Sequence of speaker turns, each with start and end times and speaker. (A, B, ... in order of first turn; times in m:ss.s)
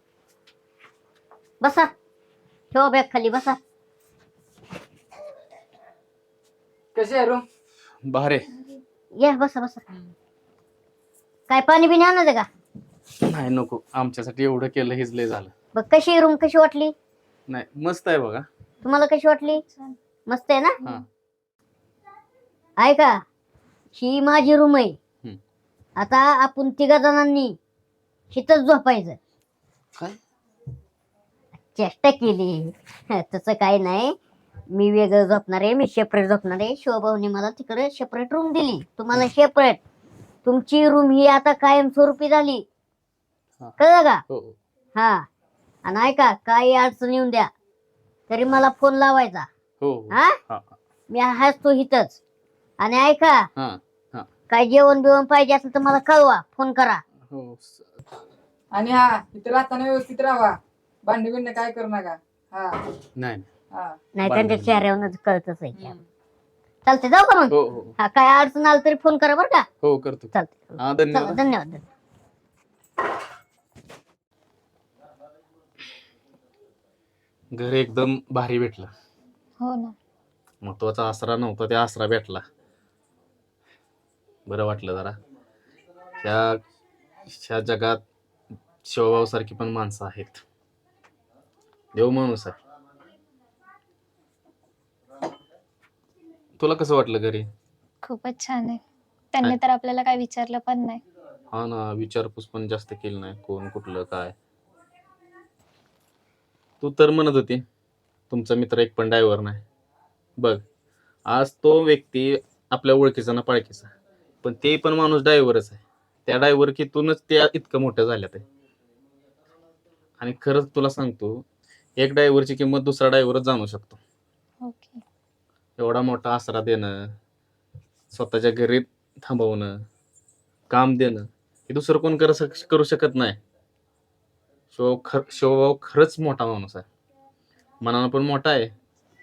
0:01.6-0:01.9 A
0:02.7-0:03.6 A
0:07.0-0:07.4 B
0:08.0-0:08.5 C
0:09.2-0:09.8 A
0:11.5-0:12.5 A
0:13.2-0:15.5 C
0:15.8-0:16.9 A
0:17.5-0:18.5 C
0:18.8-0:19.6 A
0:19.7-0:20.0 D
0:20.3-0:20.8 A
0:22.8-0:23.2 A
0:24.0-0:25.0 A
0:26.0-0:27.6 A
0:28.3-0:29.2 A
0:31.7-0:34.2 A
0:34.7-0:39.8 A
0:40.4-0:42.6 A
0:43.8-0:44.2 A
0:44.3-0:44.6 C
0:45.0-0:45.3 A
0:45.8-0:47.5 A
0:48.3-0:49.5 A
0:49.8-0:50.7 C
0:50.1-0:50.4 A
0:51.1-0:52.2 A
0:52.8-0:53.5 A
0:53.6-0:54.3 C
0:54.5-0:57.0 A
0:57.3-0:57.9 C
0:58.8-1:00.6 B
1:01.1-1:02.8 B
1:03.2-1:03.5 C
1:04.2-1:05.9 A
1:04.3-1:04.8 C
1:06.9-1:09.7 A
1:07.5-1:08.0 C
1:09.8-1:11.4 C
1:10.3-1:11.8 A
1:17.5-1:18.9 C
1:19.6-1:20.0 D
1:20.6-1:22.4 C
1:24.5-1:25.2 C
1:26.2-1:26.6 C
1:27.3-1:28.0 C
1:28.8-1:30.4 C
1:32.0-1:32.6 C
1:36.6-1:37.5 C
1:38.0-1:38.8 D
1:39.3-1:41.0 D
1:41.5-1:44.4 C
1:46.8-1:47.6 C
1:48.3-1:49.6 C
1:50.4-1:50.6 C
1:51.3-1:53.9 C
1:54.4-1:58.4 C
2:00.2-2:01.4 C
2:02.0-2:04.0 C
2:04.6-2:05.0 D
2:05.8-2:07.1 C
2:08.1-2:09.8 C
2:10.7-2:13.4 C
2:14.7-2:16.9 C
2:17.8-2:18.7 C